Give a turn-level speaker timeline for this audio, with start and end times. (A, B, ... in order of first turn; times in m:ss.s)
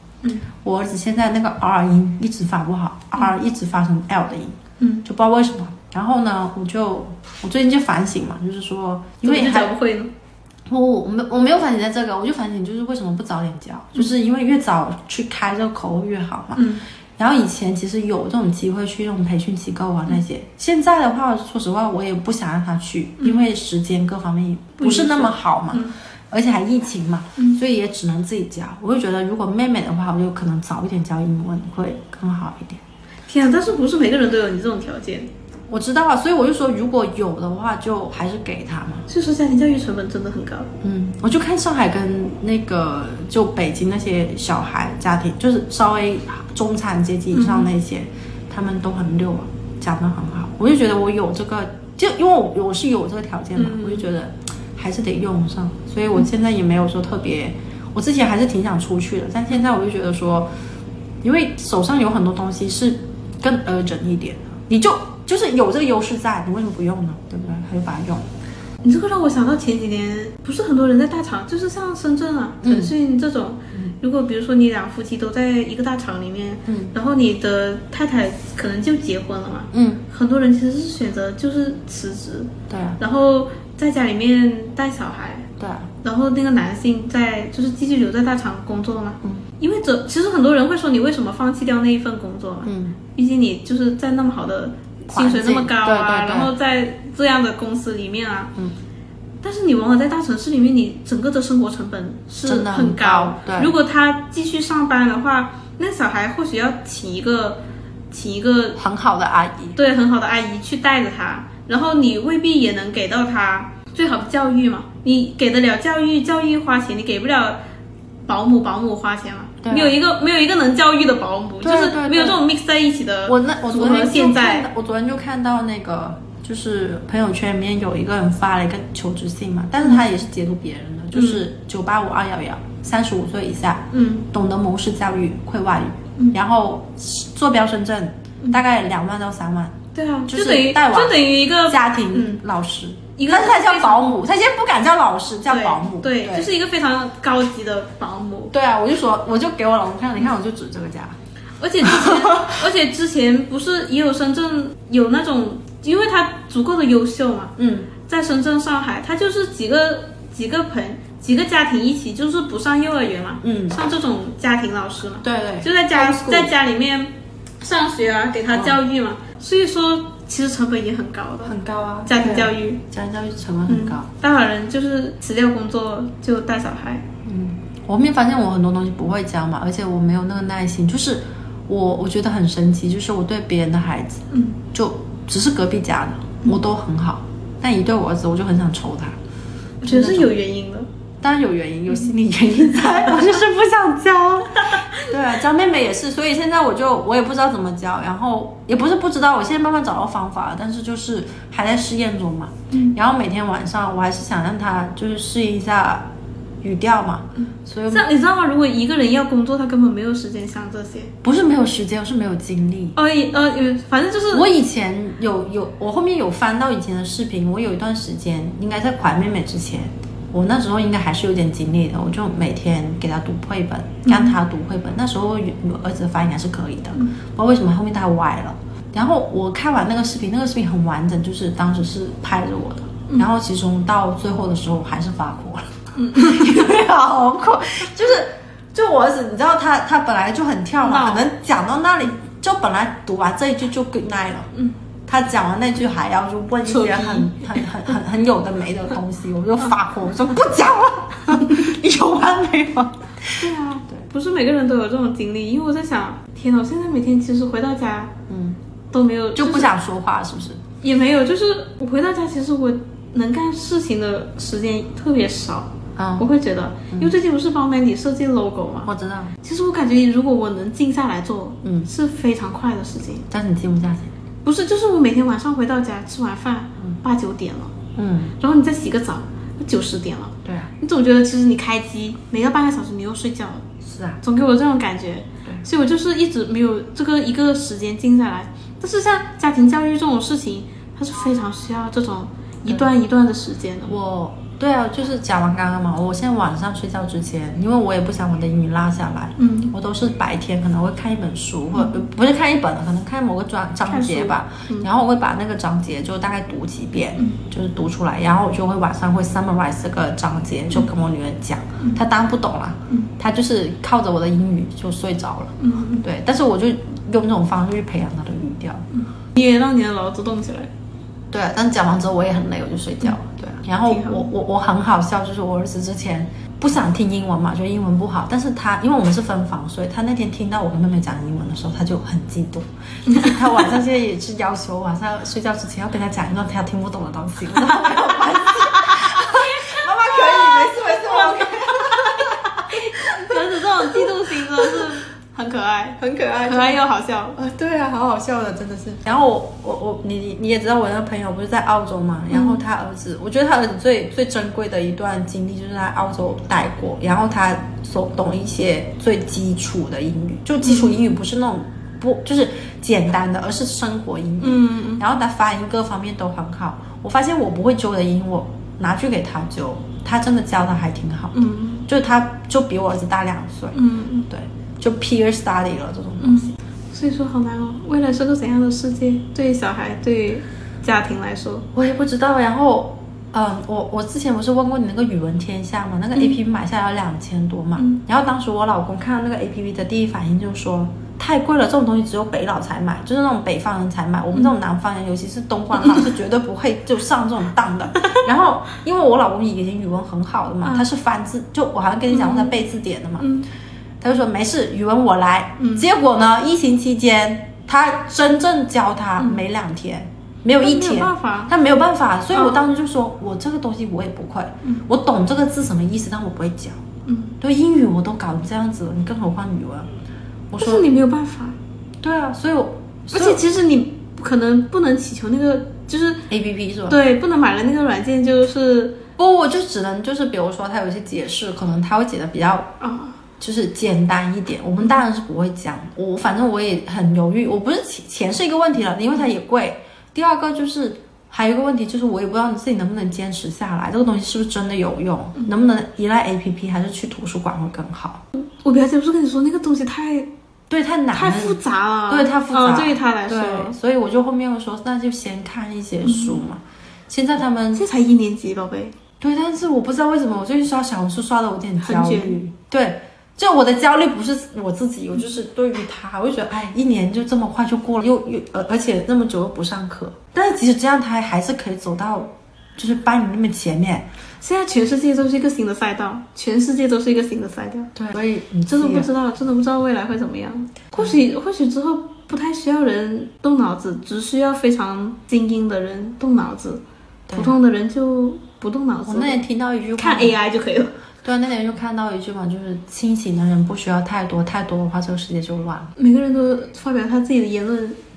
0:00.6-0:09.7 A
0:04.8-0:05.1 B
0:09.2-0:10.1 B
0:10.7-0:32.8 A
0:16.6-0:16.8 B
0:23.2-0:23.5 B
0:24.8-0:26.0 B
0:33.3-0:35.3 B
0:35.7-0:39.1 A
0:39.1-0:40.7 B
0:40.8-1:00.5 A
0:47.3-0:47.7 B
0:53.6-0:54.1 B
1:01.2-1:08.3 A
1:08.8-1:25.5 B
1:12.6-1:12.9 A
1:16.7-1:16.9 A
1:19.7-1:20.0 A
1:22.7-1:23.0 A
1:25.6-1:25.9 A
1:26.0-1:38.5 B
1:32.6-1:33.0 A
1:35.1-1:36.5 A
1:39.4-1:48.8 B
1:42.4-1:43.7 A
1:48.8-1:49.8 A
1:49.8-1:57.6 B
1:58.3-2:04.7 B
1:59.6-2:00.0 A
2:01.6-2:02.4 A
2:03.3-2:26.5 A
2:11.1-2:11.4 B
2:13.9-2:14.3 B
2:19.9-2:22.4 B
2:23.2-2:24.1 B
2:25.5-2:28.5 B
2:28.5-2:31.2 A
2:31.6-2:52.8 B
2:31.8-2:32.6 A
2:37.6-2:37.9 A
2:43.4-2:43.8 A
2:45.2-2:46.5 A
2:48.5-2:48.8 A
2:51.4-2:54.1 A
2:53.7-2:57.1 B
2:57.2-3:09.2 A
3:04.3-3:04.6 B
3:09.8-3:10.9 B
3:09.9-3:10.3 A
3:11.2-3:26.1 A
3:14.6-3:15.1 B
3:22.7-3:23.0 B
3:26.6-3:28.1 A
3:27.4-3:31.1 B
3:31.2-3:33.0 A
3:33.0-3:34.5 B
3:34.3-4:04.5 A
3:44.1-3:44.4 B
3:56.0-3:56.7 B
4:00.8-4:01.3 B
4:05.1-4:14.1 A
4:06.6-4:07.6 B
4:13.4-4:18.2 B
4:18.3-4:18.6 A
4:18.9-4:19.7 B
4:19.4-4:20.6 A
4:20.8-4:28.9 B
4:26.0-4:26.3 A
4:28.9-4:29.4 A
4:29.4-4:33.3 B
4:31.6-4:31.9 A
4:33.3-4:34.1 A
4:34.4-4:37.8 B
4:38.0-4:38.4 A
4:38.4-4:43.7 B
4:40.4-4:40.7 A
4:43.8-4:44.2 A
4:44.2-4:53.9 B
4:53.9-5:18.9 A
4:59.4-4:59.8 B
5:03.9-5:04.9 B
5:15.6-5:16.0 B
5:18.9-5:20.7 B
5:21.3-5:43.3 A
5:23.9-5:24.2 B
5:37.7-5:38.0 B
5:38.7-5:47.4 B
5:43.8-5:44.7 A
5:46.4-5:46.8 A
5:47.4-6:16.6 A
5:52.3-5:52.6 B
6:00.6-6:01.0 B
6:04.4-6:05.0 B
6:11.3-6:11.9 B
6:13.7-6:14.3 B
6:16.2-6:21.7 B
6:21.7-6:43.3 A
6:27.8-6:28.0 B
6:42.1-6:42.6 B
6:43.2-6:43.5 B
6:44.0-6:56.8 A
6:45.6-6:45.9 B
6:49.2-6:49.4 B
6:50.6-6:51.5 B
6:52.3-6:52.6 B
6:57.1-6:57.4 B
6:57.4-6:59.9 A
7:00.5-7:00.9 A
7:00.6-7:01.6 B
7:02.0-7:03.4 A
7:03.1-7:06.3 B
7:06.3-7:07.0 A
7:06.9-7:09.0 B
7:09.2-7:12.7 A
7:12.8-7:13.2 B
7:13.4-7:28.2 A
7:28.3-7:30.3 B
7:30.7-7:37.9 A
7:31.1-7:33.8 B
7:36.0-7:36.4 B
7:37.8-7:39.0 B
7:39.2-7:54.1 A
7:41.8-7:42.4 B
7:54.4-7:57.9 B
7:58.0-7:59.1 A
7:58.7-8:09.4 B
8:07.3-8:07.6 A
8:09.1-8:10.4 A
8:10.0-8:10.9 B
8:11.2-8:15.9 A
8:16.0-8:18.0 B